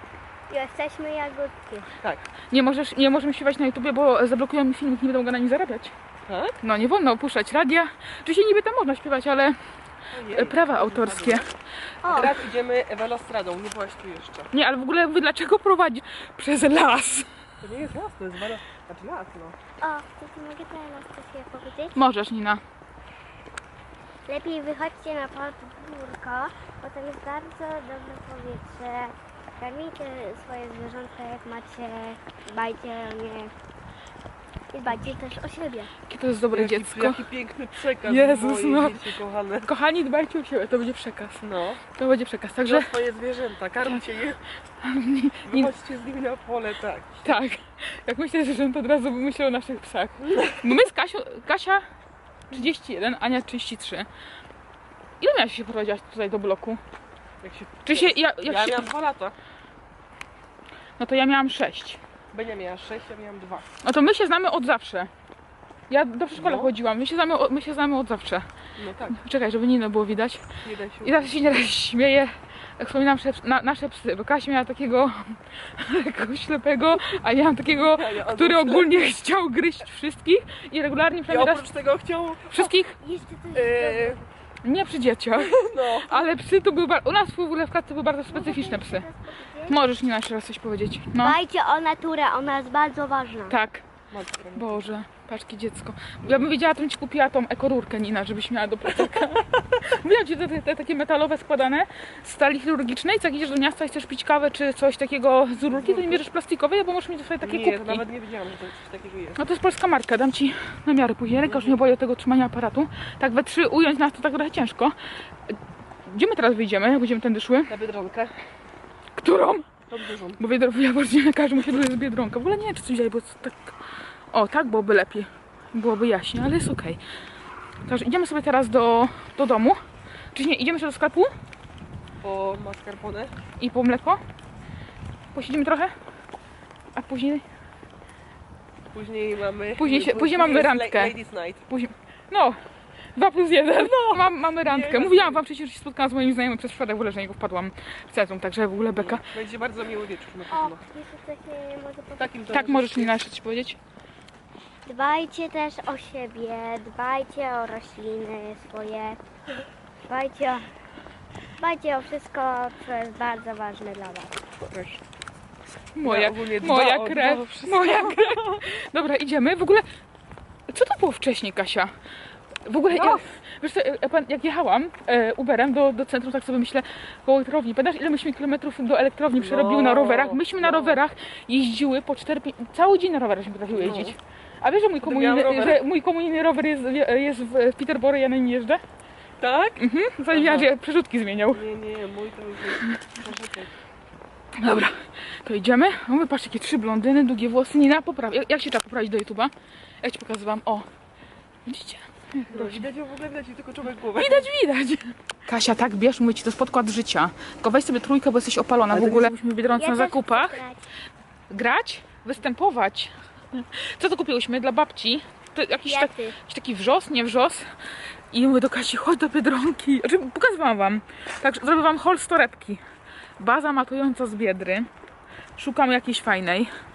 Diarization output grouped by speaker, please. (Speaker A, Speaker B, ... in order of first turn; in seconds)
Speaker A: 0.5-1.9, 12.0-12.3, 19.8-21.9, 24.2-33.5, 34.7-35.9, 83.0-84.2, 88.3-89.8, 91.2-93.5, 150.5-152.3, 154.8-159.2, 160.1-160.7, 161.6-164.3, 209.8-210.8, 215.8-216.3
Speaker B: 2.5-5.9, 6.6-9.6, 10.3-11.5, 14.5-17.3, 21.9-22.6, 36.1-37.2, 38.0-39.0, 39.6-41.4, 41.9-42.9, 44.8-45.7, 47.2-51.8, 52.5-54.1, 55.2-56.8, 57.8-58.9, 61.0-62.0, 63.8-65.1, 65.9-68.5, 69.1-70.4, 71.0-81.7, 82.5-82.9, 84.6-89.1, 89.7-91.4, 93.5-93.8, 94.5-108.0, 109.4-114.9, 115.5-117.7, 119.2-119.7, 120.4-123.7, 124.3-127.0, 127.8-129.8, 130.3-131.3, 133.6-134.2, 135.3-135.9, 136.9-137.4, 139.8-141.1, 141.7-142.6, 143.1-149.2, 152.5-153.8, 165.9-169.8, 170.7-171.9, 172.6-188.8, 189.8-191.6, 194.6-199.5, 200.0-200.8, 201.7-202.8, 204.2-210.6, 211.5-217.6, 218.3-222.8, 223.4-224.9, 225.6-226.7
Speaker C: 6.2-6.6, 10.1-11.4, 12.0-14.5, 17.6-19.6, 36.5-39.7, 41.4-41.8, 42.6-44.4, 45.5-47.3, 50.3-50.6, 57.4-59.3, 62.3-63.7, 66.3-66.7, 68.8-69.2, 70.6-71.3, 77.7-78.9, 81.3-82.7, 83.5-84.2, 85.4-86.3, 94.1-94.9, 96.2-96.5, 105.7-106.2, 107.4-109.4, 111.5-111.8, 117.7-118.3, 119.9-120.4, 132.2-133.3, 138.9-141.6, 143.7-145.4, 148.9-150.8, 152.2-153.2, 164.6-165.0, 166.0-168.6, 172.9-173.2, 179.4-181.0, 183.7-184.1, 185.0-185.8, 189.4-189.8, 190.3-190.7, 191.5-193.7, 202.5-204.5, 208.9-209.3